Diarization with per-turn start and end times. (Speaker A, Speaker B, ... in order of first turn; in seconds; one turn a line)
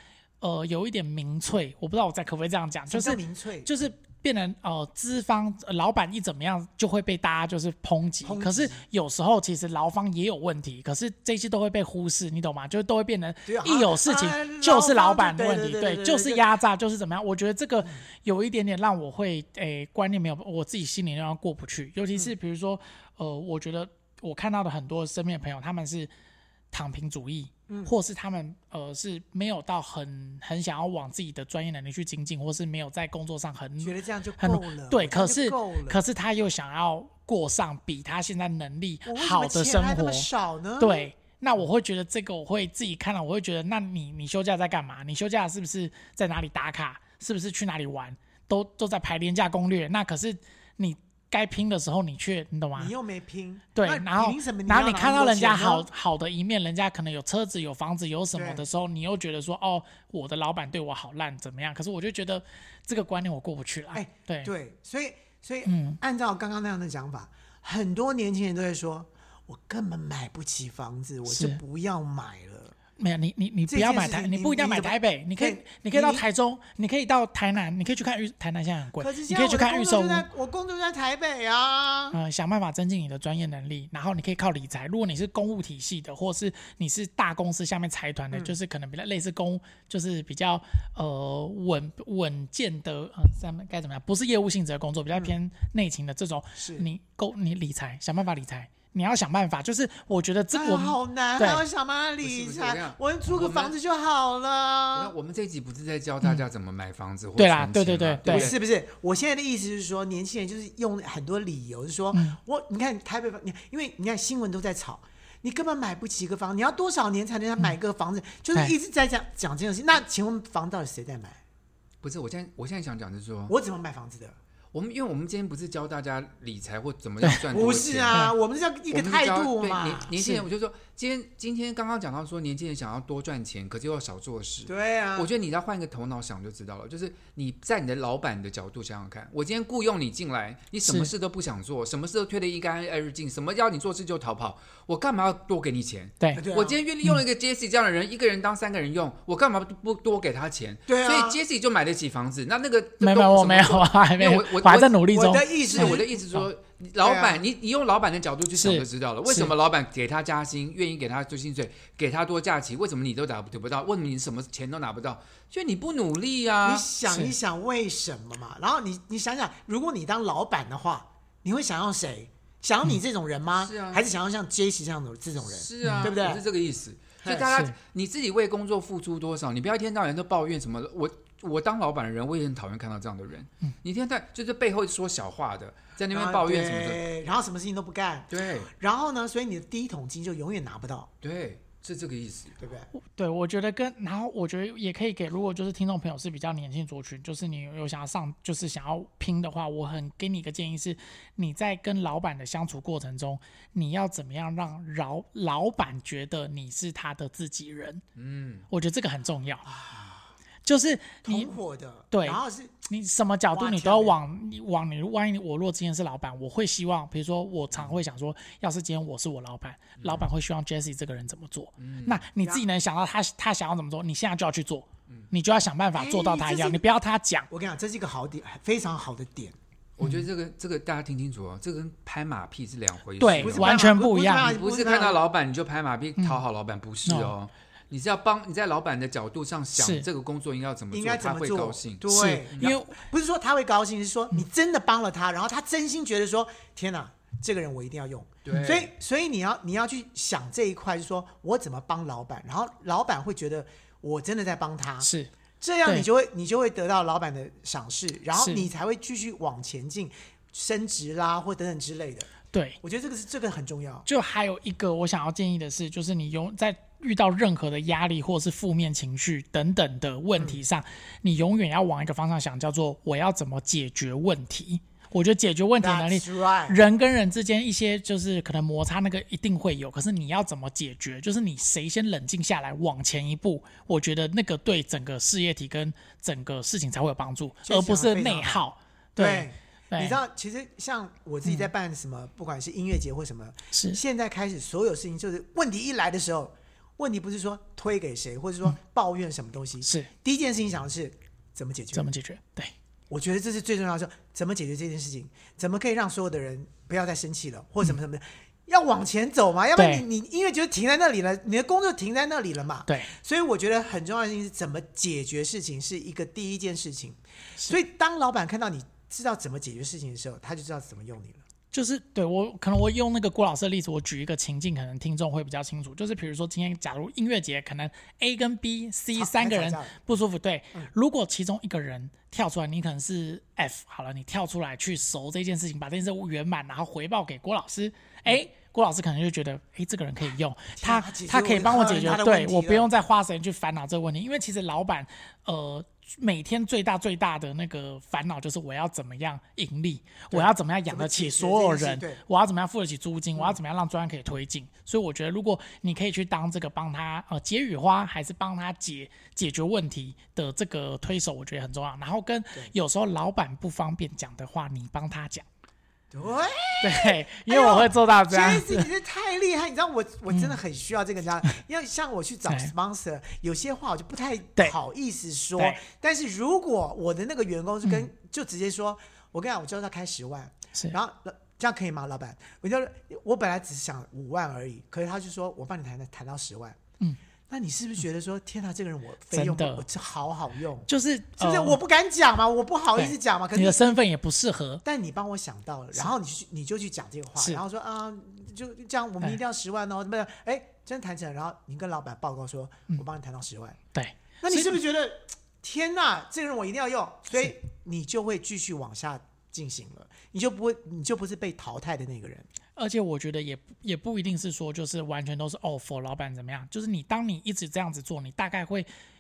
Speaker A: 0.4-26.1
Speaker B: 2.9-3.7
Speaker B: 8.2-8.8
Speaker B: 13.5-16.4
Speaker A: 26.7-40.3
Speaker B: 27.7-27.9
Speaker B: 33.8-36.0
Speaker B: 39.1-41.1
Speaker A: 40.8-52.9
Speaker B: 52.8-55.9
Speaker A: 53.8-64.5
Speaker B: 58.3-58.6
Speaker B: 63.9-72.8
Speaker A: 65.7-66.0
Speaker A: 71.3-71.6
Speaker A: 73.0-80.3
Speaker B: 73.7-76.3
Speaker B: 79.0-82.2
Speaker A: 82.1-101.6
Speaker B: 96.6-96.9
Speaker B: 100.5-105.1
Speaker C: 102.2-103.8
Speaker C: 104.9-108.6
Speaker A: 107.4-108.5
Speaker B: 108.3-121.4
Speaker A: 112.1-112.4
Speaker C: 122.0-123.5
Speaker B: 123.5-124.4
Speaker C: 124.7-128.2
Speaker B: 127.5-130.4
Speaker C: 128.9-166.9
Speaker B: 134.7-135.3
Speaker A: 140.8-141.1
Speaker B: 146.3-146.8
Speaker B: 150.9-151.4
Speaker A: 153.0-156.5
Speaker B: 155.1-156.1
Speaker B: 157.0-157.4
Speaker A: 158.5-159.5
Speaker B: 166.6-176.4
Speaker A: 167.1-167.3
Speaker C: 173.6-174.1
Speaker C: 175.4-187.0
Speaker A: 175.8-176.1
Speaker B: 177.2-177.5
Speaker B: 186.1-191.1
Speaker C: 188.3-188.7
Speaker C: 191.2-192.6
Speaker B: 192.6-192.9
Speaker A: 193.0-208.0
Speaker C: 208.2-208.7
Speaker A: 208.7-209.7
Speaker C: 209.7-210.3
Speaker A: 210.7-211.5
Speaker B: 211.2-212.8
Speaker A: 212.1-227.5
Speaker B: 213.5-214.2
Speaker C: 217.7-218.0
Speaker C: 220.0-220.3
Speaker C: 221.8-222.2
Speaker B: 225.9-226.8
Speaker B: 227.5-229.6
Speaker C: 230.0-233.8
Speaker A: 233.2-234.5
Speaker B: 233.4-235.2
Speaker C: 234.4-242.7
Speaker A: 237.1-237.3
Speaker A: 239.8-240.1
Speaker B: 240.9-255.1
Speaker A: 242.1-243.0
Speaker C: 248.4-248.9
Speaker A: 255.0-255.3
Speaker B: 255.6-264.1
Speaker A: 258.4-258.7
Speaker A: 262.5-262.8
Speaker A: 264.1-290.2
Speaker B: 275.8-276.8
Speaker B: 287.6-288.6
Speaker B: 289.2-302.1
Speaker A: 293.7-294.0
Speaker A: 299.8-300.1
Speaker A: 301.9-302.7
Speaker B: 303.1-321.4
Speaker A: 309.8-310.0
Speaker A: 321.7-365.5
Speaker B: 329.1-330.0
Speaker B: 340.8-342.9
Speaker B: 350.3-352.2
Speaker B: 366.1-386.8
Speaker A: 366.8-368.9
Speaker A: 370.3-370.6
Speaker B: 387.5-394.0
Speaker A: 389.3-389.8
Speaker A: 390.9-391.8
Speaker A: 393.0-394.8
Speaker B: 394.8-403.8
Speaker A: 403.9-404.8
Speaker B: 404.4-412.5
Speaker A: 412.8-418.9